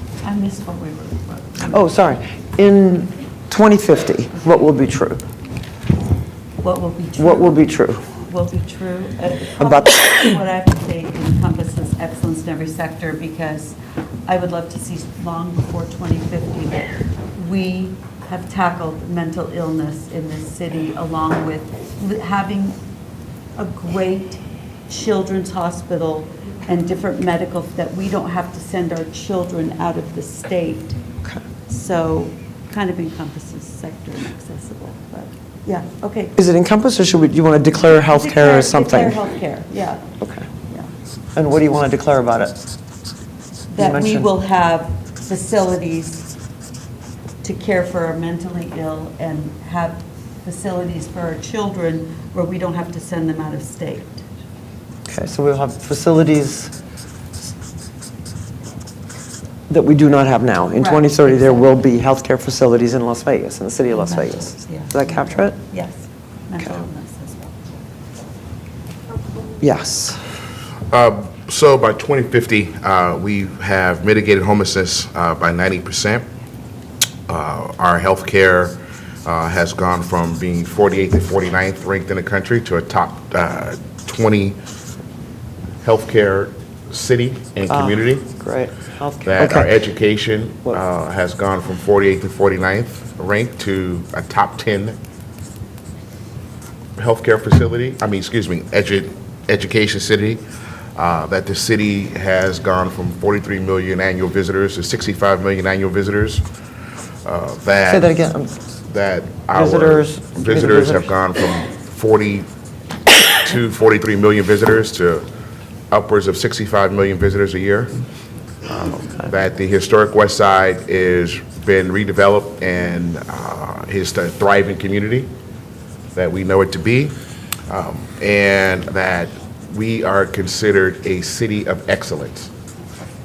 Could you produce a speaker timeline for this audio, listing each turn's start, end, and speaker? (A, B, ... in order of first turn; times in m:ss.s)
0:00.2-0:01.8 A
0:01.7-0:05.2 B
0:06.6-0:07.6 A
0:07.2-0:08.0 B
0:08.2-0:22.8 A
0:09.6-0:10.1 B
0:23.6-0:31.0 A
0:31.7-0:36.4 A
0:36.4-0:39.2 B
0:37.9-0:40.0 A
0:40.2-0:40.5 B
0:41.4-0:42.6 B
0:43.7-0:46.3 A
0:43.8-0:44.3 B
0:47.4-0:54.2 A
0:55.1-0:56.7 B
0:59.7-1:05.6 B
1:00.8-1:01.7 A
1:03.9-1:07.8 A
1:09.6-1:10.2 B
1:10.9-1:16.3 C
1:17.3-1:24.6 C
1:25.8-1:28.3 C
1:27.7-1:29.8 B
1:29.2-1:35.0 C
1:37.0-1:40.4 C
1:41.0-1:46.4 C
1:47.2-1:48.1 C
1:47.9-1:48.5 B
1:48.9-1:52.5 C
1:49.5-1:51.1 B
1:53.4-1:55.2 C
1:55.9-1:57.9 C
1:58.7-2:05.3 C
2:06.2-2:07.2 C
2:07.7-2:12.5 C